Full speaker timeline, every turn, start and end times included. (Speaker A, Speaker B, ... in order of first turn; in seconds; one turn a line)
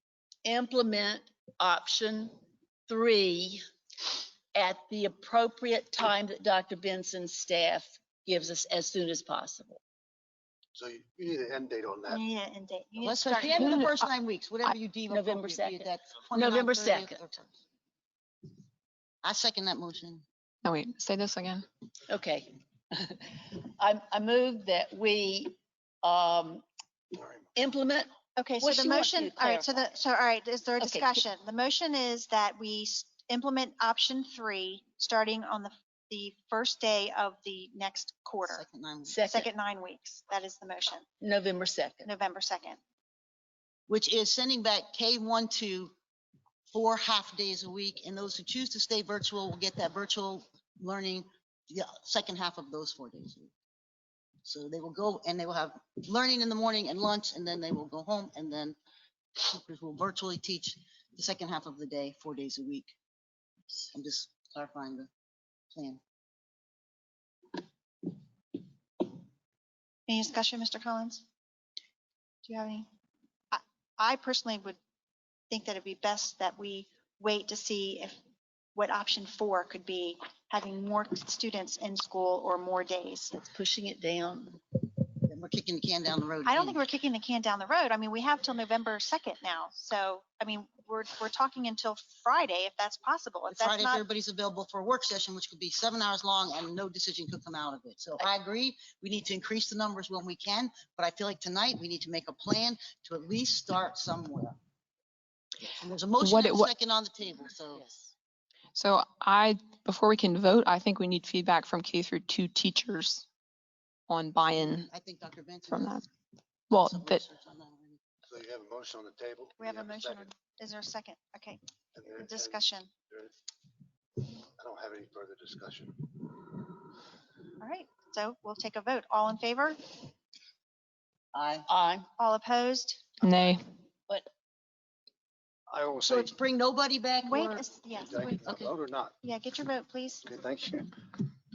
Speaker A: 0.4-3.6
Speaker A: 4.5-9.8
Speaker B: 10.7-12.2
Speaker C: 12.1-13.9
Speaker D: 13.0-17.6
Speaker E: 13.5-13.8
Speaker A: 15.1-17.2
Speaker D: 19.2-20.2
Speaker E: 20.6-21.6
Speaker A: 22.1-26.6
Speaker A: 27.6-29.9
Speaker C: 28.4-38.6
Speaker A: 30.8-31.3
Speaker D: 38.4-39.2
Speaker A: 39.0-39.5
Speaker C: 39.2-41.0
Speaker A: 41.2-42.1
Speaker C: 42.0-42.8
Speaker D: 43.9-45.9
Speaker D: 46.7-53.5
Speaker D: 54.4-58.8
Speaker D: 59.4-62.9
Speaker D: 63.7-65.1
Speaker D: 65.7-66.0
Speaker C: 70.1-71.2
Speaker C: 72.5-72.9
Speaker C: 73.5-74.8
Speaker C: 75.5-78.2
Speaker C: 78.7-83.3
Speaker A: 83.3-84.6
Speaker D: 85.2-86.8
Speaker C: 86.4-94.0
Speaker D: 93.5-104.6
Speaker D: 105.7-107.8
Speaker E: 106.2-106.7
Speaker A: 107.7-108.1
Speaker E: 108.7-113.2
Speaker E: 114.1-114.9
Speaker D: 114.7-116.0
Speaker E: 115.7-116.0
Speaker E: 116.7-117.2
Speaker D: 116.7-118.0
Speaker B: 118.2-120.3
Speaker C: 119.6-121.6
Speaker B: 121.9-123.3
Speaker C: 122.1-122.9
Speaker B: 124.2-126.3
Speaker C: 127.6-130.0
Speaker D: 131.3-131.7
Speaker A: 131.7-132.1
Speaker C: 132.2-133.1
Speaker E: 133.2-133.6
Speaker B: 135.7-136.3
Speaker D: 136.1-137.7
Speaker C: 137.2-138.4
Speaker B: 138.0-139.1
Speaker D: 138.4-138.7
Speaker C: 139.2-140.2
Speaker B: 140.2-141.1